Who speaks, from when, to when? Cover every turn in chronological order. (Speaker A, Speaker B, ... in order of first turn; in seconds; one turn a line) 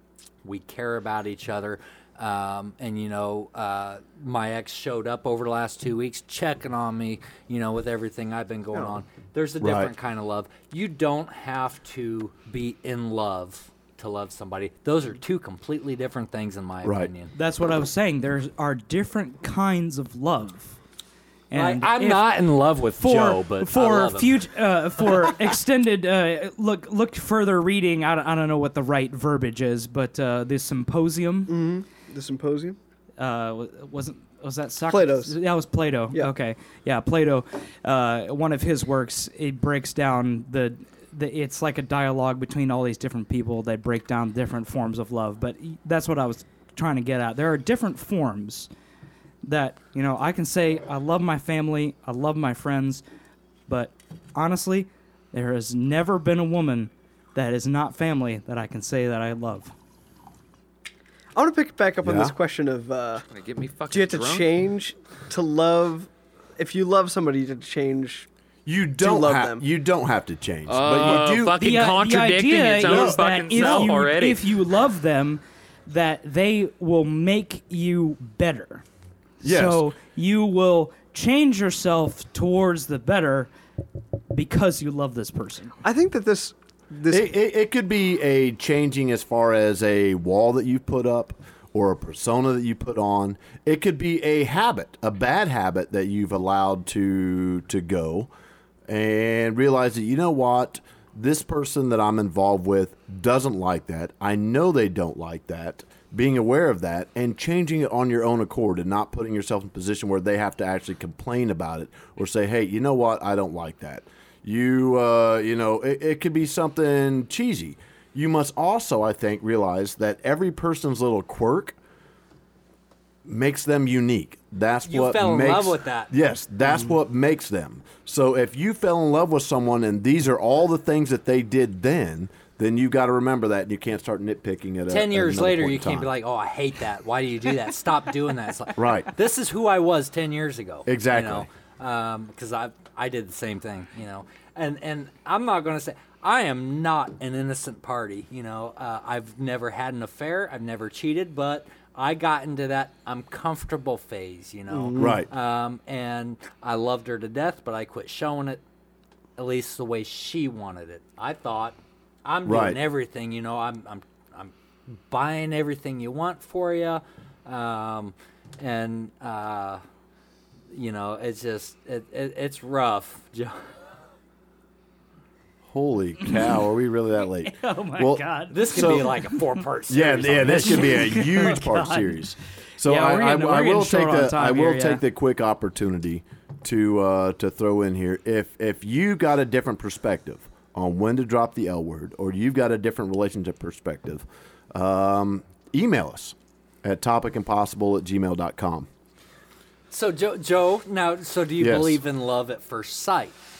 Speaker A: 0.4-17.3
Speaker B: 9.6-9.9
Speaker B: 16.8-17.1
Speaker C: 17.3-20.8
Speaker C: 21.5-22.4
Speaker A: 21.5-24.4
Speaker C: 23.0-31.6
Speaker D: 31.5-32.8
Speaker C: 33.2-48.7
Speaker D: 34.9-35.4
Speaker C: 49.4-53.0
Speaker C: 53.7-59.7
Speaker D: 61.3-63.2
Speaker B: 62.0-62.3
Speaker E: 63.3-64.5
Speaker D: 63.9-68.3
Speaker B: 68.7-71.7
Speaker D: 69.0-69.6
Speaker E: 70.7-74.5
Speaker C: 71.6-78.8
Speaker B: 72.8-73.9
Speaker C: 79.4-83.5
Speaker B: 79.4-79.8
Speaker C: 84.3-85.8
Speaker D: 85.8-87.3
Speaker B: 87.1-98.3
Speaker B: 98.9-121.8
Speaker B: 123.2-136.1
Speaker A: 124.8-126.1
Speaker A: 134.9-158.6
Speaker B: 138.8-139.1
Speaker B: 140.8-141.5
Speaker D: 154.7-155.2
Speaker B: 154.9-155.3
Speaker A: 159.4-169.8
Speaker B: 162.4-162.8
Speaker A: 170.7-173.6
Speaker B: 175.6-179.1
Speaker C: 177.4-179.6
Speaker A: 178.5-181.2
Speaker B: 179.9-198.9
Speaker C: 180.7-182.1
Speaker C: 182.8-185.0
Speaker A: 199.9-203.3
Speaker B: 201.6-202.0